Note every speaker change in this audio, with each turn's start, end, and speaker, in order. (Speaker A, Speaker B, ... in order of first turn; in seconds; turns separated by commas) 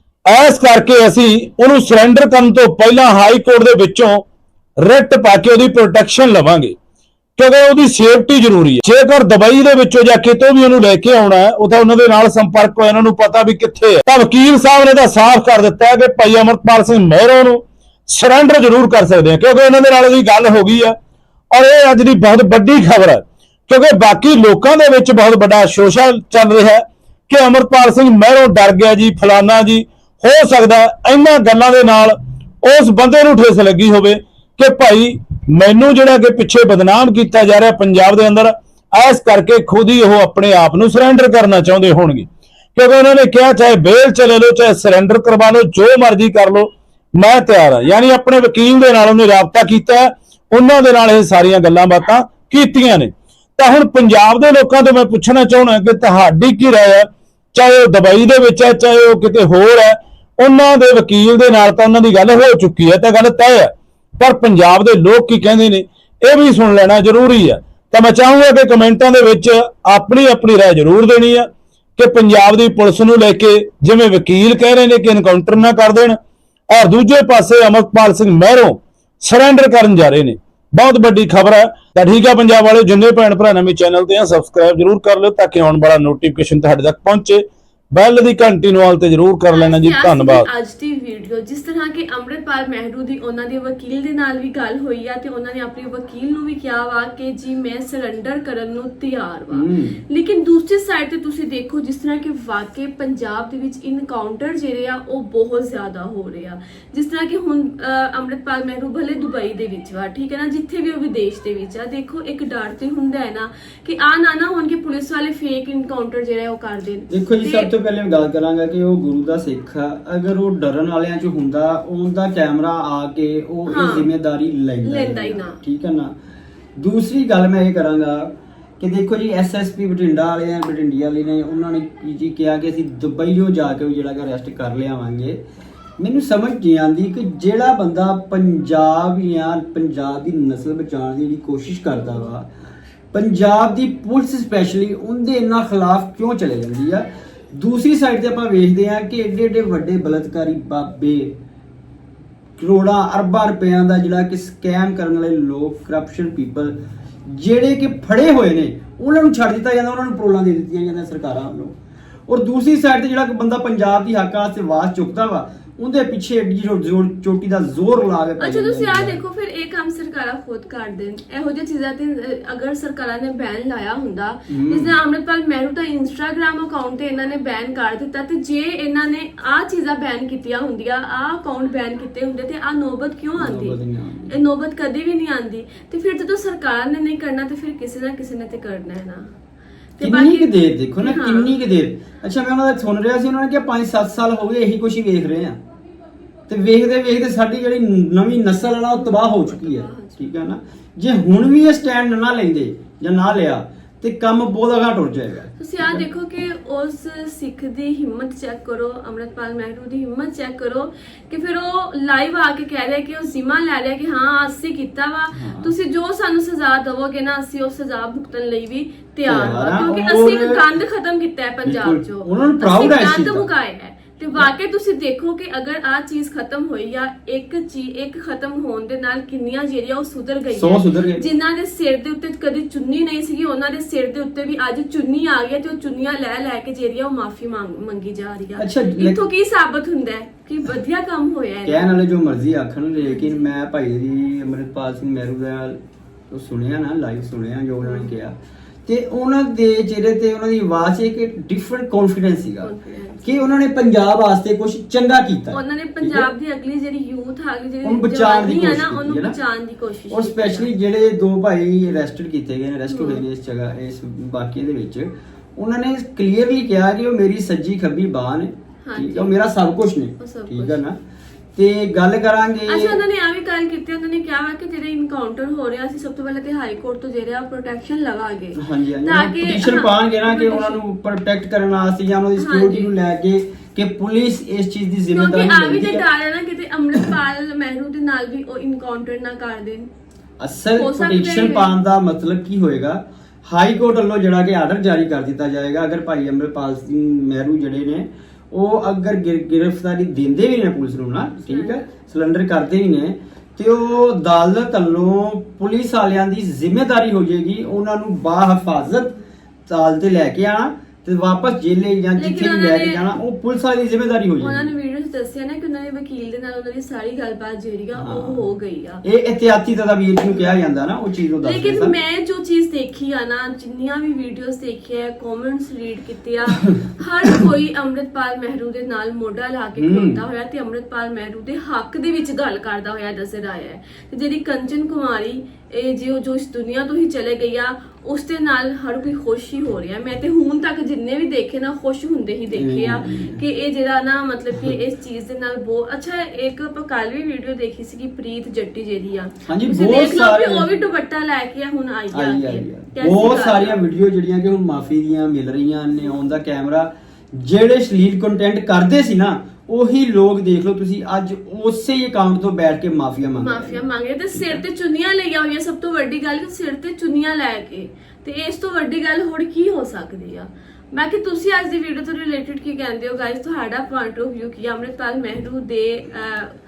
Speaker A: 0.3-4.2, Speaker A: 4.8-6.8, Speaker A: 7.4-21.0, Speaker A: 21.5-76.2, Speaker A: 76.7-90.5, Speaker B: 89.5-117.7, Speaker C: 99.5-100.0, Speaker C: 117.1-126.1, Speaker B: 123.7-124.1, Speaker B: 124.8-125.6, Speaker C: 126.8-135.4, Speaker C: 136.0-142.5, Speaker C: 143.1-151.4, Speaker C: 152.6-161.8, Speaker C: 162.3-169.2, Speaker B: 168.4-183.8, Speaker C: 174.5-174.9, Speaker C: 183.4-184.3, Speaker B: 184.3-189.3, Speaker B: 190.0-191.5, Speaker C: 190.0-195.6, Speaker C: 196.5-206.0, Speaker B: 198.9-200.3, Speaker B: 205.6-241.9, Speaker C: 215.3-215.7, Speaker C: 219.3-220.7, Speaker C: 221.7-223.5, Speaker C: 230.5-231.2, Speaker C: 238.6-239.2, Speaker C: 241.7-245.8, Speaker B: 243.1-243.4, Speaker C: 246.3-248.3, Speaker B: 247.8-248.1, Speaker C: 248.9-252.7, Speaker B: 252.6-253.3, Speaker C: 253.2-256.3, Speaker B: 255.5-260.7, Speaker C: 257.8-259.4, Speaker C: 260.1-271.0, Speaker B: 262.9-263.2, Speaker B: 268.8-269.3, Speaker B: 270.2-270.8, Speaker C: 271.6-273.0, Speaker B: 272.7-280.8, Speaker C: 278.6-286.0, Speaker B: 282.4-282.9, Speaker B: 285.1-289.9, Speaker C: 290.4-309.1, Speaker B: 290.8-291.8, Speaker B: 301.4-301.9, Speaker C: 309.7-314.7, Speaker B: 312.2-313.1, Speaker B: 314.4-319.0, Speaker C: 317.9-318.4, Speaker C: 319.0-321.9, Speaker B: 321.4-353.8, Speaker C: 329.8-330.2, Speaker C: 342.6-343.4, Speaker C: 349.5-350.7, Speaker C: 352.1-364.6, Speaker B: 363.4-376.5